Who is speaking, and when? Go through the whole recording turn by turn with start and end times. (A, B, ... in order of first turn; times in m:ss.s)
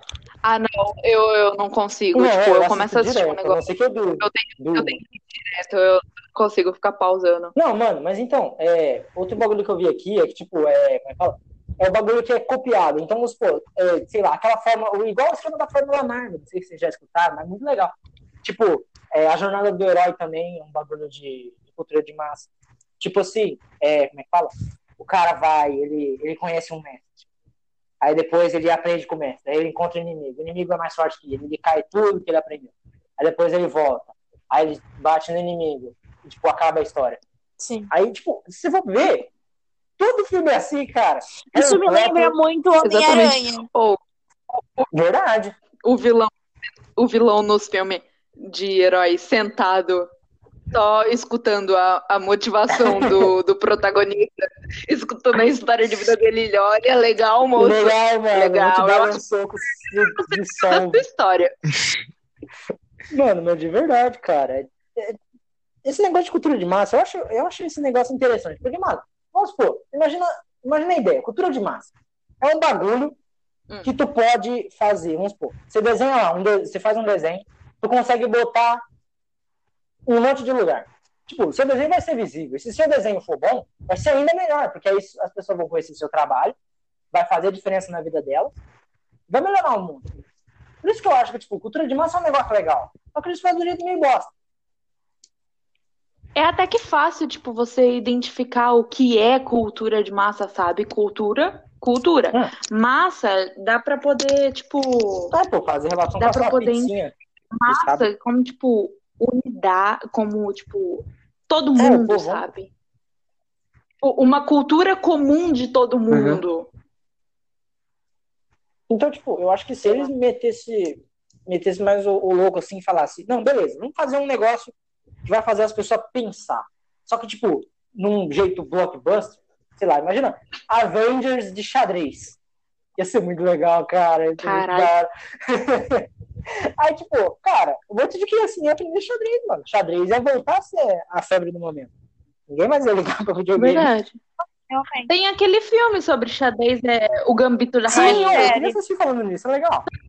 0:00.4-0:03.6 A
0:02.1-0:05.0 B
0:04.2-0:07.5 A
0:07.5-0:27.2 B
0:28.0-0:37.2 B
0:37.6-0:37.9 C
0:37.9-0:39.3 B
0:40.0-0:42.4 B
0:41.5-0:43.7 C
0:42.8-0:44.0 A
0:44.5-0:44.9 A
0:44.9-0:45.5 B
0:45.8-0:46.3 A
0:46.9-0:50.1 A
0:50.7-1:01.6 A
0:52.7-0:53.3 B
0:57.6-1:01.0 B
1:03.1-1:05.2 B
1:05.8-1:13.2 B
1:13.8-1:18.8 B
1:20.0-1:26.6 B
1:27.1-1:28.6 B
1:29.3-1:30.1 B
1:30.8-1:34.3 B
1:36.4-1:45.3 A
1:45.3-1:47.1 B
1:46.2-1:46.9 A
1:47.5-1:52.7 A
1:47.7-1:48.1 B
1:51.8-1:52.5 B
1:54.0-1:56.7 A
1:56.1-1:56.4 B
1:58.9-2:04.7 B
2:05.3-2:12.4 B
2:13.0-2:16.1 B
2:14.4-2:14.9 A
2:16.8-2:21.9 B
2:22.5-2:23.9 B
2:23.6-2:24.2 A
2:24.7-2:25.1 C
2:25.1-2:28.5 A
2:27.9-2:28.8 C
2:27.9-2:29.8 B